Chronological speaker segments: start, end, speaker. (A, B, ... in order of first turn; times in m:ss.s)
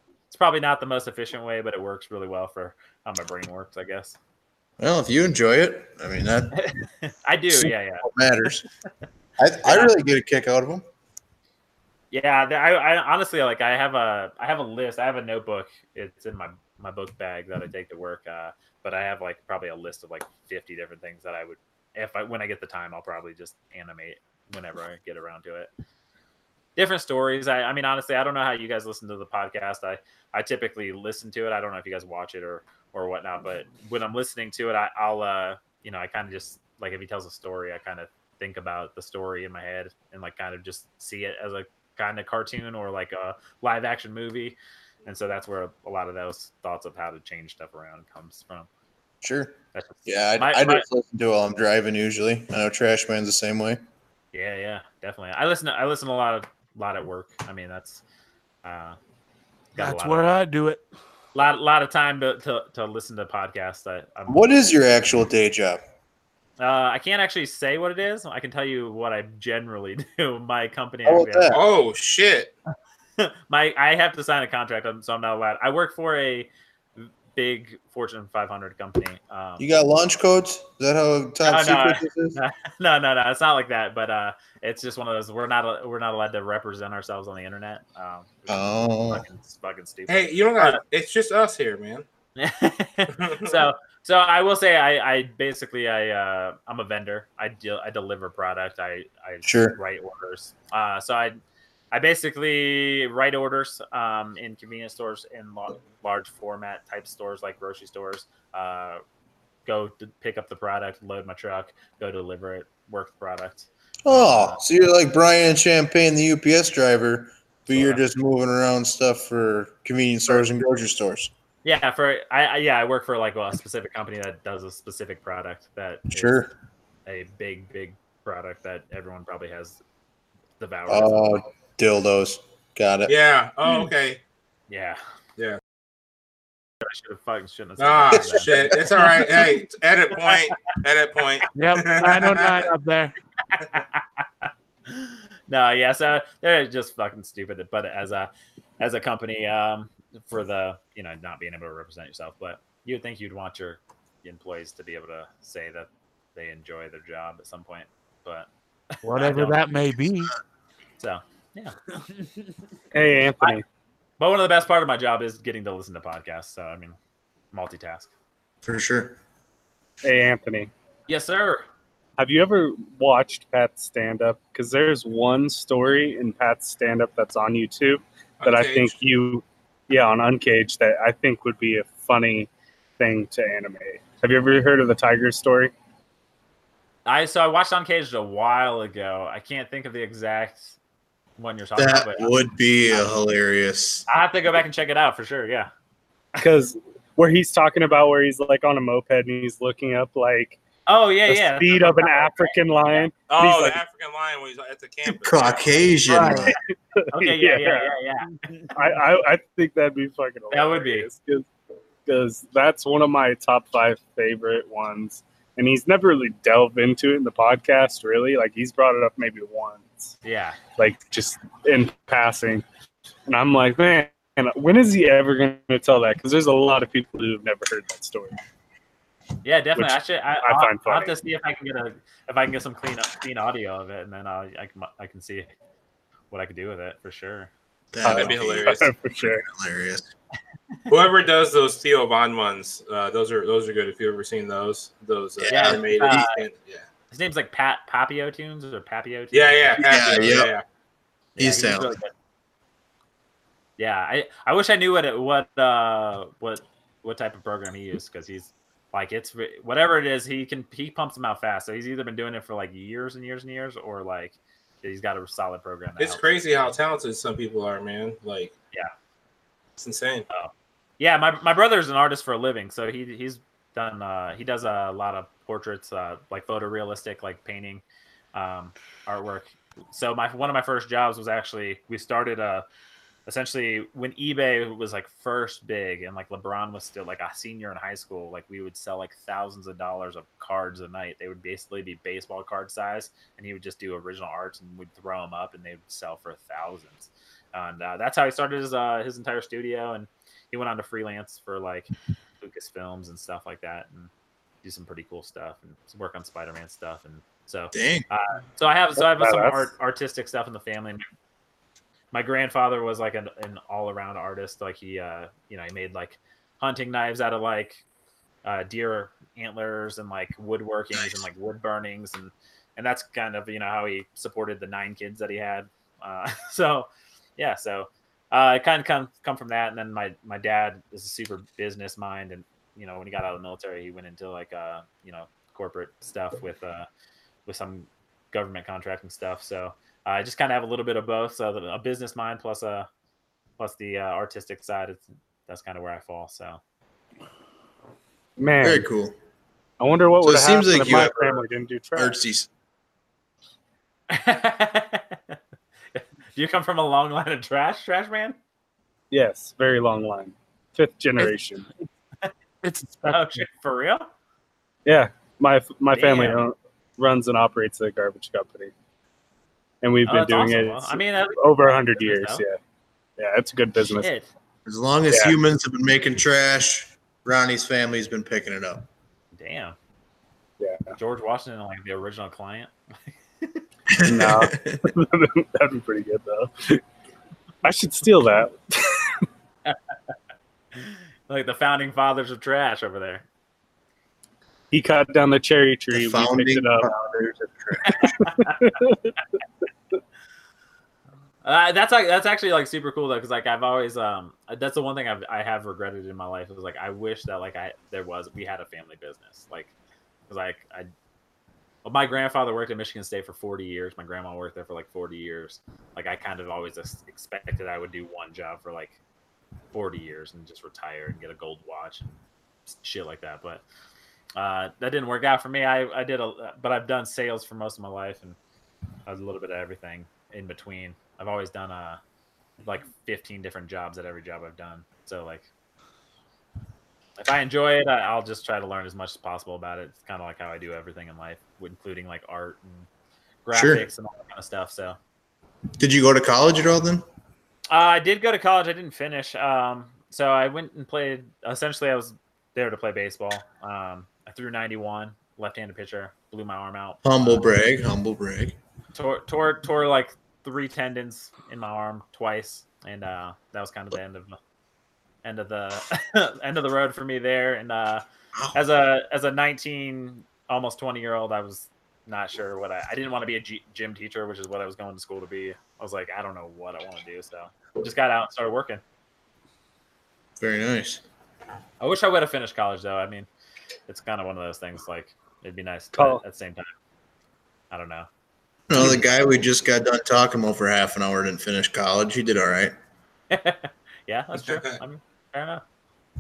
0:00.3-0:04.2 A
0:04.8-0:06.5 B
0:06.5-0:08.1 A
0:07.5-0:08.7 B
0:09.4-0:10.8 B
0:09.6-0:09.9 A
0:12.1-0:25.7 A
0:26.8-0:48.7 A
0:49.2-0:53.8 B
0:49.7-0:50.9 A
0:54.3-0:58.0 A
0:58.6-0:59.0 A
0:59.7-1:00.3 A
0:59.8-1:00.8 C
1:01.4-1:04.4 A
1:04.3-1:05.8 B
1:06.6-1:11.6 A
1:11.1-1:11.6 B
1:11.5-1:12.5 D
1:13.2-1:19.7 A
1:19.6-1:22.4 B
1:21.4-1:30.8 A
1:28.5-1:29.2 B
1:30.1-1:32.0 D
1:32.4-1:41.4 A
1:33.1-1:33.6 D
1:39.4-1:39.8 B
1:41.9-1:49.0 A
1:49.7-1:54.6 A
1:54.0-2:01.3 B
1:57.7-1:58.0 A
2:01.6-2:06.4 A
2:06.1-2:06.5 B
2:07.1-2:09.8 A
2:10.6-2:11.3 A
2:10.9-2:13.1 B
2:13.1-2:14.2 D
2:14.7-2:15.0 A
2:16.8-2:18.5 A
2:17.8-2:22.6 D
2:18.1-2:19.0 B
2:21.6-2:23.2 C
2:23.5-2:28.3 A
2:28.8-2:39.6 A
2:39.0-2:40.3 C
2:41.0-2:41.8 A
2:42.9-2:43.6 E
2:44.2-2:47.0 A
2:47.5-2:48.1 A
2:48.6-2:49.2 B
2:50.0-2:50.7 E
2:51.1-2:51.6 A
2:52.2-3:05.7 E
2:58.4-2:59.0 D
3:07.1-3:10.8 A
3:11.4-3:12.3 A
3:11.8-3:14.1 B
3:12.9-3:13.2 A
3:14.1-3:15.7 A
3:16.4-3:20.6 E
3:20.9-3:23.1 A
3:21.3-3:23.8 E
3:23.3-3:26.0 D
3:25.0-3:26.6 B
3:26.1-3:26.6 E
3:27.1-3:28.7 A
3:27.2-3:27.9 E
3:28.7-3:31.5 E
3:30.5-3:31.1 A
3:32.1-3:40.2 E
3:40.2-3:40.6 A
3:40.8-3:42.6 E
3:43.3-3:48.3 E
3:49.4-3:55.5 A
3:49.8-3:51.1 E
3:56.3-3:57.5 A
3:57.9-4:00.1 B
3:58.0-3:59.4 E
3:58.1-3:58.9 D
4:00.9-4:06.9 D
4:05.4-4:05.8 B
4:05.5-4:06.4 A
4:07.1-4:10.4 A
4:09.3-4:10.6 D
4:09.8-4:10.5 B
4:11.4-4:12.1 A
4:11.4-4:11.9 B
4:13.8-4:26.2 A
4:26.0-4:28.5 D
4:29.8-4:30.3 D
4:30.3-4:37.8 A
4:38.3-4:42.6 A
4:43.3-5:01.9 A
5:02.4-5:04.1 A
5:04.6-5:11.0 A
5:07.7-5:08.1 B
5:09.0-5:09.7 E
5:12.1-5:17.8 A
5:18.4-5:36.9 A
5:21.0-5:21.2 B
5:37.5-5:42.9 A
5:43.6-5:46.6 A
5:48.4-5:48.8 E
5:48.6-5:49.2 B
5:49.8-5:52.2 E
5:50.2-5:51.4 B
5:52.0-5:52.5 B
5:54.1-5:55.4 A
5:55.9-5:58.4 A
5:59.1-6:01.7 E
6:02.6-6:03.4 C
6:03.1-6:04.1 A
6:04.9-6:08.7 E
6:05.9-6:06.4 A
6:09.8-6:12.6 E
6:10.0-6:12.4 A
6:13.2-6:14.1 E
6:13.8-6:14.3 A
6:14.7-6:18.9 B
6:19.3-6:19.8 A
6:20.6-6:21.0 E
6:21.0-6:23.6 A
6:23.9-6:24.9 B
6:24.0-6:26.8 E
6:27.6-6:29.1 E
6:30.8-6:33.3 A
6:34.7-6:36.9 E
6:35.9-6:38.2 B
6:38.2-6:39.1 E
6:38.3-6:38.6 A
6:41.4-6:49.7 A
6:50.3-6:50.9 A
6:51.8-6:59.0 A
6:59.7-7:03.6 A
7:04.4-7:08.4 A
7:09.1-7:12.0 A
7:12.6-7:15.5 A
7:17.2-7:22.9 A
7:23.4-7:25.0 A
7:23.5-7:23.9 B
7:25.8-7:27.0 B
7:27.7-7:37.5 A
7:37.0-7:38.6 B
7:38.9-7:44.4 A
7:45.2-7:48.0 A
7:48.5-7:58.8 A
8:00.4-8:01.0 B
8:01.8-8:03.3 A
8:03.9-8:06.7 A
8:05.9-8:06.2 E
8:07.7-8:08.1 A
8:08.7-8:12.7 B
8:13.3-8:15.6 A
8:14.4-8:14.8 D